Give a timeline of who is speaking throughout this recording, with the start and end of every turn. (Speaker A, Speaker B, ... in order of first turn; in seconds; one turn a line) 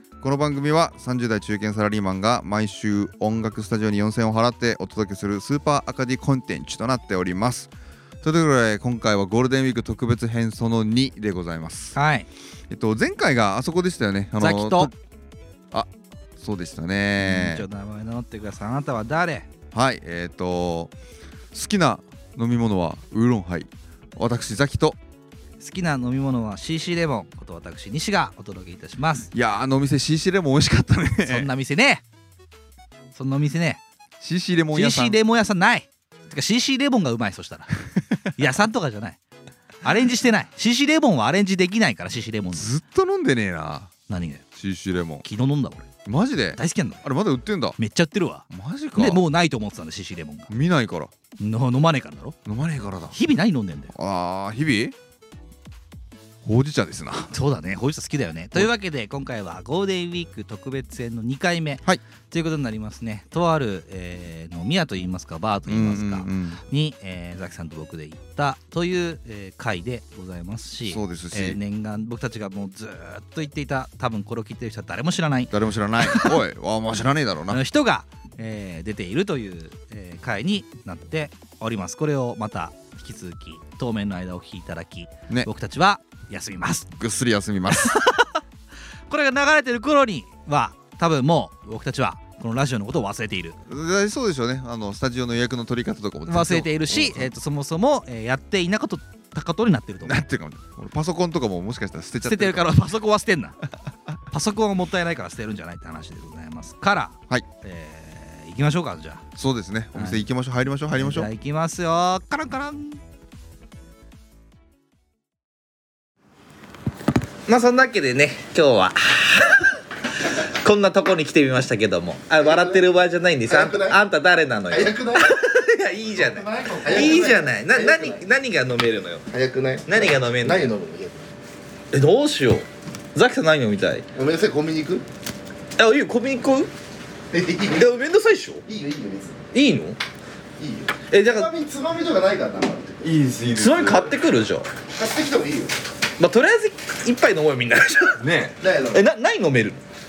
Speaker A: 0.2-7.7
Speaker A: 8.2-11.9
Speaker B: 11.9-12.2
Speaker A: 12.7-14.9
Speaker B: 14.4-14.9
Speaker A: 16.4-17.6
Speaker B: 17.2-19.5
Speaker A: 19.7-20.9
Speaker A: 21.5-25.0
Speaker B: 25.6-29.3
Speaker A: 29.3-31.5
Speaker B: 31.2-32.0
Speaker B: 33.1-33.8
Speaker A: 34.2-35.2
Speaker B: 34.7-37.7
Speaker B: 38.3-39.2
Speaker B: 39.8-42.7
Speaker A: 42.5-43.9
Speaker B: 44.1-44.4
Speaker A: 44.6-45.2
Speaker B: 45.2-45.9
Speaker A: 46.0-47.8
Speaker B: 46.6-47.0
Speaker B: 47.8-50.5
Speaker A: 48.5-49.2
Speaker A: 50.5-51.1
Speaker B: 51.4-52.4
Speaker A: 52.5-53.1
Speaker B: 53.1-53.9
Speaker A: 53.9-54.9
Speaker A: 56.4-57.3
Speaker B: 57.1-76.5
Speaker A: 65.7-66.6
Speaker A: 70.9-71.6
Speaker A: 75.5-77.6
Speaker B: 77.5-87.0
Speaker A: 87.0-87.9
Speaker B: 87.7-88.4
Speaker B: 89.1-93.5
Speaker A: 93.7-97.3
Speaker B: 96.3-100.2
Speaker A: 100.0-102.7
Speaker B: 102.2-103.5
Speaker B: 104.3-109.2
Speaker A: 109.4-111.3
Speaker B: 109.9-110.2
Speaker B: 110.9-113.0
Speaker B: 117.5-119.8
Speaker B: 120.4-129.2
Speaker C: 122.4-122.8
Speaker C: 123.5-124.0
Speaker C: 124.7-125.4
Speaker C: 126.1-128.2
Speaker C: 129.3-131.2
Speaker B: 129.9-130.7
Speaker B: 131.9-134.1
Speaker C: 134.1-135.0
Speaker B: 135.8-136.7
Speaker C: 137.3-138.0
Speaker B: 137.7-138.6
Speaker C: 138.7-139.4
Speaker B: 139.5-140.0
Speaker C: 140.6-143.1
Speaker B: 141.1-141.5
Speaker A: 143.0-144.2
Speaker B: 143.6-144.7
Speaker C: 144.9-145.8
Speaker B: 146.2-148.2
Speaker A: 148.2-148.6
Speaker C: 148.6-149.0
Speaker B: 148.9-149.8